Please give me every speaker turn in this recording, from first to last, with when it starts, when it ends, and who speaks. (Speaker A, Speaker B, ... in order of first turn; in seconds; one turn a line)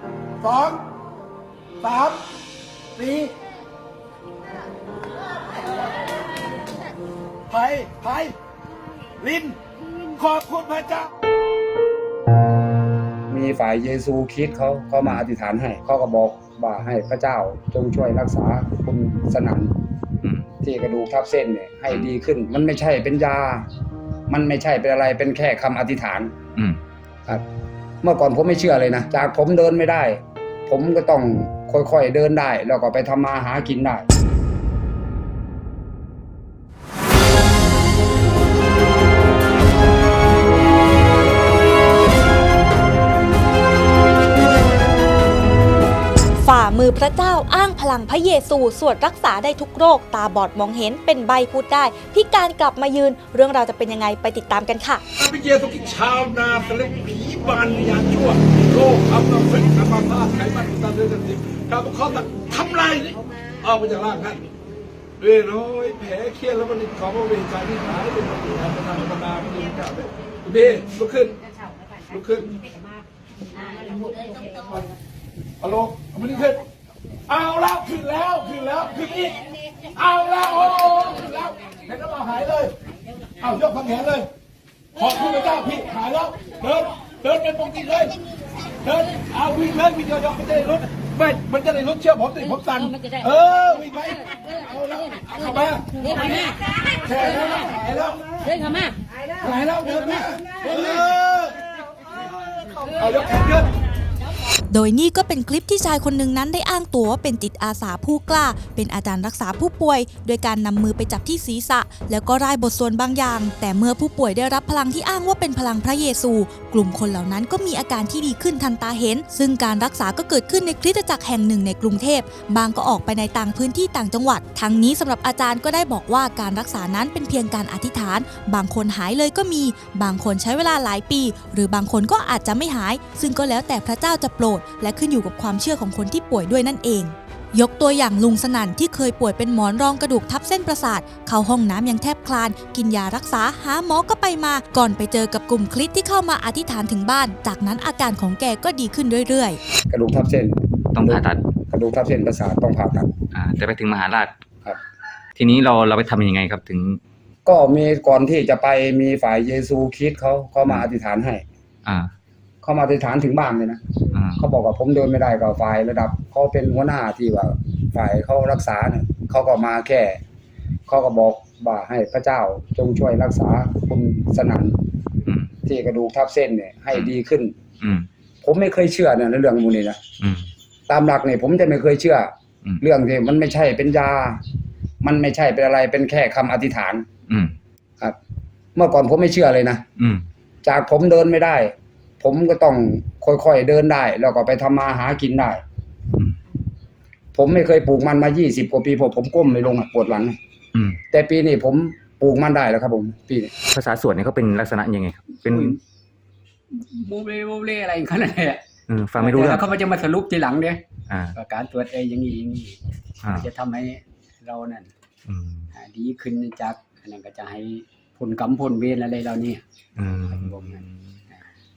Speaker A: 0.4-0.9
Speaker A: 1.8-2.3
Speaker A: 3.0-3.3
Speaker A: 7.5-8.4
Speaker A: 9.2-9.6
Speaker A: 10.2-11.1
Speaker B: 13.3-19.7
Speaker B: 20.6-23.7
Speaker B: 24.3-26.3
Speaker B: 28.0-34.1
Speaker C: 46.4-55.0
Speaker A: 55.2-64.4
Speaker A: 65.2-71.4
Speaker A: 72.1-72.6
Speaker A: 74.1-74.9
Speaker A: 75.6-76.6
Speaker A: 77.3-79.4
Speaker A: 79.9-82.8
Speaker A: 83.4-84.3
Speaker A: 85.0-88.2
Speaker A: 88.8-98.6
Speaker A: 99.4-103.7
Speaker C: 104.7-149.6
Speaker B: 149.9-153.1
Speaker D: 150.9-151.4
Speaker D: 153.3-154.3
Speaker D: 155.4-157.0
Speaker B: 157.5-161.4
Speaker D: 161.8-162.1
Speaker B: 162.6-163.8
Speaker D: 164.1-164.4
Speaker B: 164.4-170.2
Speaker B: 170.9-174.8
Speaker B: 175.7-177.6
Speaker D: 177.8-178.1
Speaker B: 178.4-180.0
Speaker D: 180.2-180.5
Speaker B: 180.9-184.4
Speaker B: 185.0-187.1
Speaker D: 187.3-187.5
Speaker B: 188.8-189.8
Speaker D: 190.0-190.2
Speaker B: 190.6-195.6
Speaker B: 197.3-200.4
Speaker D: 200.7-201.0
Speaker B: 201.1-203.5
Speaker D: 203.7-205.8
Speaker E: 205.5-205.8
Speaker E: 206.7-208.6
Speaker D: 208.9-209.7
Speaker E: 209.2-210.8
Speaker D: 211.1-211.3
Speaker E: 211.3-214.9
Speaker D: 215.3-215.7
Speaker E: 215.7-219.6
Speaker D: 220.0-220.9
Speaker E: 220.3-221.5